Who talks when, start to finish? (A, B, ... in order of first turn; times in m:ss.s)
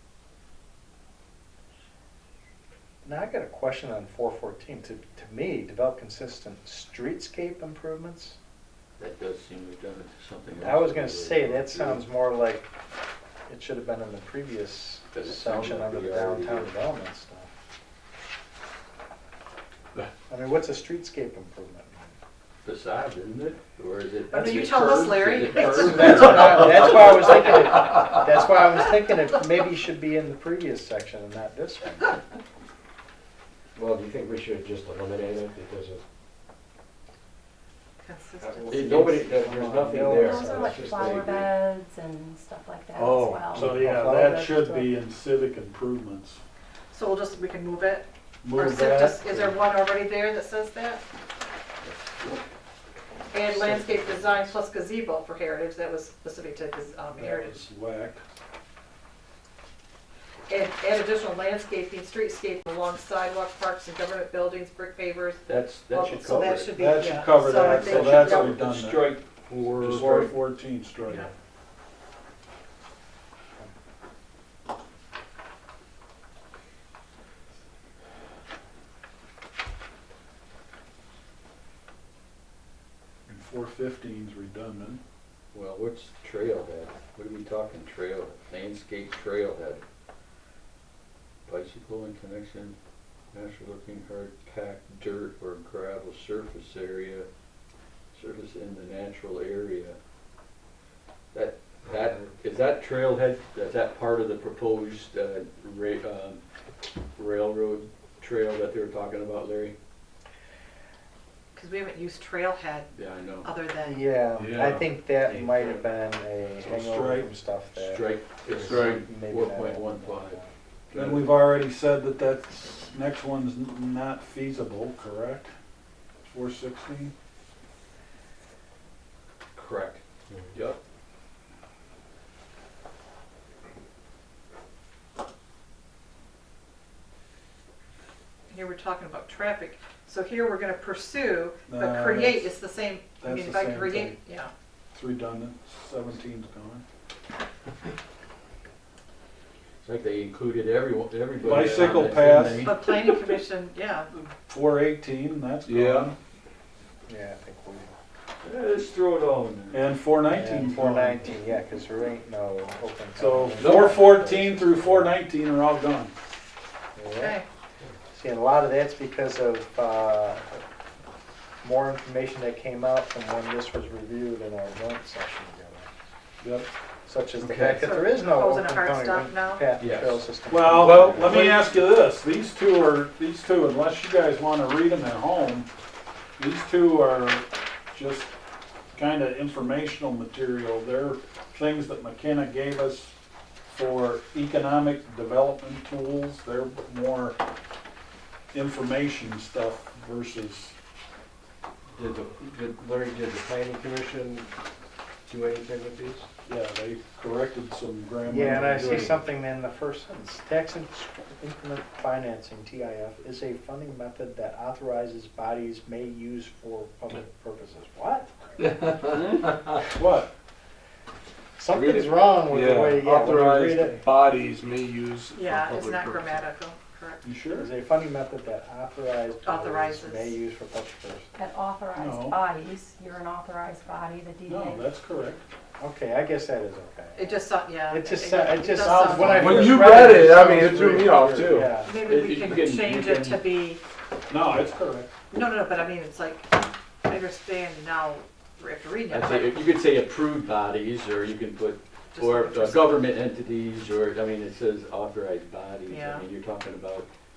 0:03.0-0:08.4 A
0:09.0-0:12.0 B
0:10.6-0:12.7 A
0:13.5-0:17.5 A
0:15.1-0:16.7 B
0:20.3-0:22.2 A
0:22.6-0:27.4 B
0:24.3-0:26.9 C
0:25.5-0:32.2 A
0:33.8-0:36.0 D
0:38.0-0:38.9 C
0:38.4-0:41.5 D
0:38.7-0:39.4 B
0:38.8-0:41.3 A
0:40.0-0:44.9 E
0:43.0-0:43.6 F
0:43.6-0:44.4 A
0:43.6-0:46.4 G
0:46.9-0:51.0 C
0:48.4-0:49.6 G
0:51.8-0:52.4 B
0:53.3-0:57.7 C
0:53.5-0:54.4 G
0:57.2-0:58.2 G
1:00.5-1:08.6 C
1:05.5-1:06.7 B
1:06.7-1:11.3 G
1:07.7-1:10.4 B
1:11.0-1:11.3 C
1:23.3-1:25.0 G
1:25.5-1:29.8 B
1:31.5-1:32.8 B
1:33.3-1:37.3 B
1:38.1-1:40.0 B
1:41.3-1:46.4 B
1:47.2-1:49.8 B
1:51.6-1:54.0 C
1:52.9-1:53.5 B
1:53.8-2:00.5 A
1:54.4-1:54.9 F
1:55.2-1:55.9 B
1:56.6-1:57.3 G
1:57.8-2:00.4 B
1:58.7-1:59.0 F
2:00.9-2:01.3 B
2:00.9-2:05.5 G
2:06.2-2:07.1 G
2:09.6-2:10.0 B
2:10.5-2:10.8 B
2:18.5-2:24.5 C
2:21.7-2:22.5 G
2:23.2-2:24.2 G
2:24.9-2:26.8 G
2:29.8-2:32.7 B
2:31.4-2:32.7 G
2:32.6-2:34.1 C
2:34.2-2:36.2 G
2:37.1-2:37.9 A
2:38.4-2:39.8 B
2:39.7-2:41.2 G
2:40.3-2:45.1 A
2:43.2-2:46.1 G
2:47.0-2:47.4 A
2:47.2-2:47.5 C
2:48.1-2:50.6 A
2:51.6-2:55.9 A
2:56.4-2:56.7 G
2:57.1-3:01.5 A
2:57.4-2:57.8 B
2:57.8-2:59.7 C
2:59.8-3:01.6 B
3:00.5-3:05.7 G
3:06.4-3:08.3 G
3:09.0-3:13.1 G
3:13.7-3:17.4 G
3:18.5-3:20.8 G
3:21.9-3:24.5 D
3:25.3-3:26.3 D
3:26.5-3:29.2 G
3:28.2-3:38.7 A
3:40.0-3:40.3 G
3:41.6-3:44.0 A
3:41.7-3:46.5 F
3:45.3-3:47.2 C
3:47.2-3:47.7 G
3:47.6-3:51.3 A
3:49.4-3:50.4 C
3:51.4-3:54.9 E
3:52.0-3:52.4 G
3:54.5-3:55.4 G
3:55.8-4:02.0 A
3:57.2-3:59.4 C
3:58.8-4:01.4 G
3:59.4-4:01.8 F
4:01.8-4:03.8 C
4:02.0-4:03.4 B
4:04.3-4:05.1 G
4:05.3-4:09.5 C
4:09.1-4:17.1 B
4:12.1-4:13.0 C
4:15.9-4:16.3 C